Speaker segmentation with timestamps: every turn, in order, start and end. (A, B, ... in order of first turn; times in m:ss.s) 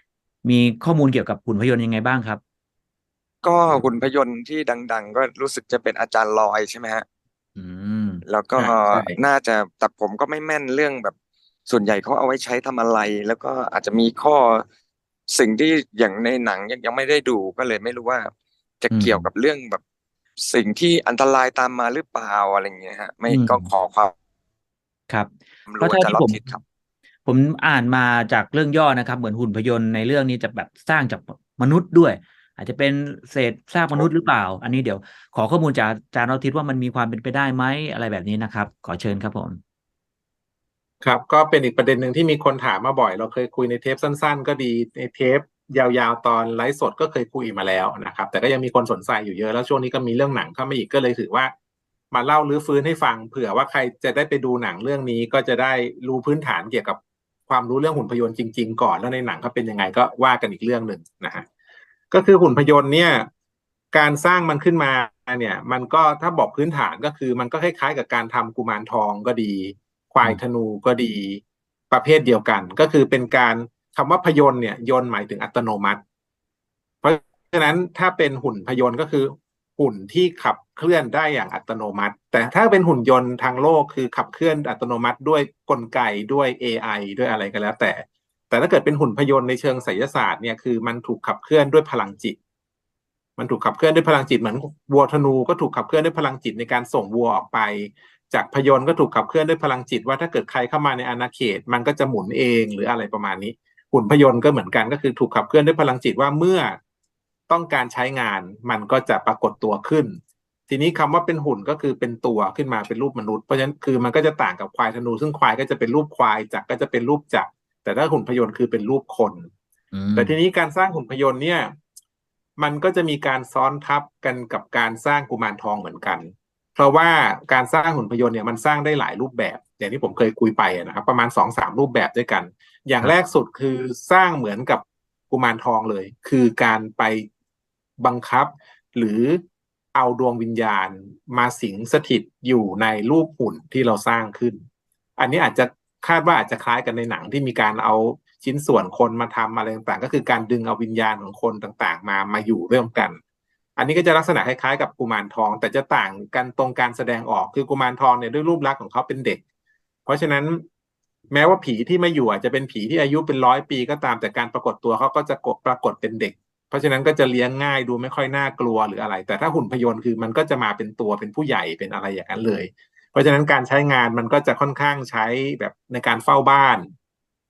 0:00.4-0:02.4 A
0:03.4-0:07.0 B
0:07.6-0:08.2 A
0:08.2-0:11.1 B
0:08.6-0:09.1 C
0:11.7-0:14.6 B
0:15.3-0:19.8 B
0:18.9-0:19.3 A
0:20.4-0:24.1 B
0:23.3-0:23.7 A
0:25.1-0:26.5 A
0:25.7-0:26.6 B
0:27.2-0:39.6 A
0:41.0-0:51.5 C
0:52.1-1:01.4 C
1:02.1-1:03.2 C
1:03.9-1:16.0 C
1:17.0-1:32.4 C
1:33.4-1:46.8 C
1:47.5-1:59.5 C
1:59.9-2:00.3 A
2:00.2-2:01.7 C
2:02.6-2:17.2 C
2:18.0-2:19.4 C
2:19.9-2:24.6 C
2:25.2-2:33.2 C
2:33.8-2:39.4 C
2:40.1-2:40.6 C
2:41.3-2:56.9 C